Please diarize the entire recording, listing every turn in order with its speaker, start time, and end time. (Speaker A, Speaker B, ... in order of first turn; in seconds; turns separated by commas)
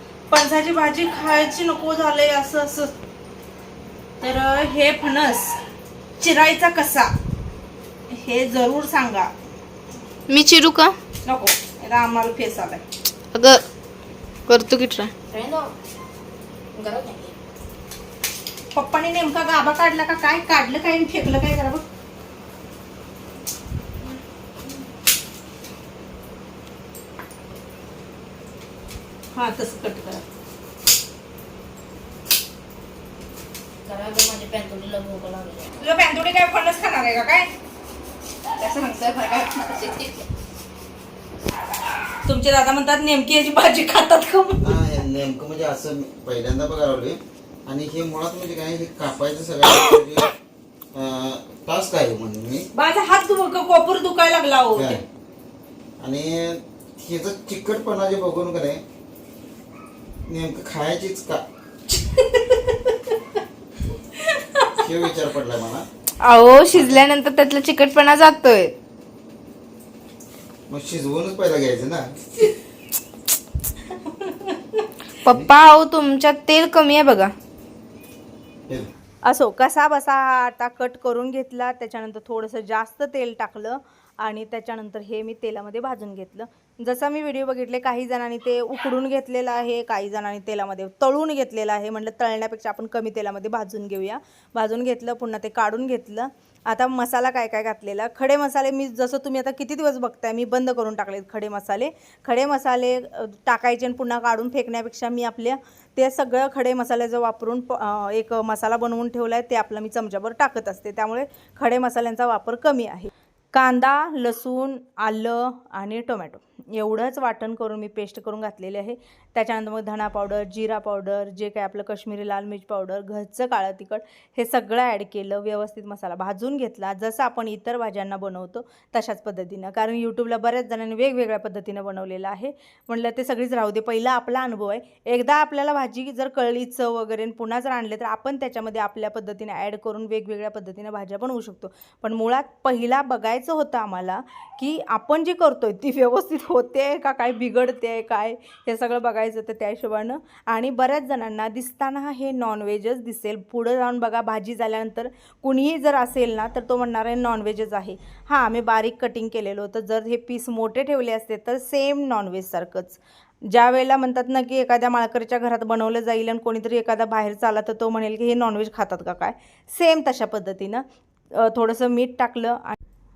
Speaker A: 0.3-2.9, Speaker A: 4.2-5.6, Speaker A: 6.2-7.2, Speaker A: 8.1-9.3, Speaker B: 10.3-11.0, Speaker A: 11.3-12.8, Speaker B: 13.3-13.6, Speaker B: 14.5-15.7, Speaker B: 16.8-17.4, Speaker A: 18.7-21.9, Speaker A: 29.4-30.3, Speaker B: 33.9-35.7, Speaker A: 35.8-37.5, Speaker B: 38.6-40.3, Speaker A: 42.2-44.8, Speaker C: 44.6-50.3, Speaker C: 50.9-52.7, Speaker A: 52.8-55.0, Speaker C: 54.8-55.0, Speaker C: 56.0-58.8, Speaker C: 60.3-61.4, Speaker C: 64.7-65.9, Speaker B: 66.2-68.7, Speaker C: 66.7-67.1, Speaker C: 70.7-72.2, Speaker A: 74.3-74.5, Speaker B: 75.2-77.3, Speaker A: 79.3-172.8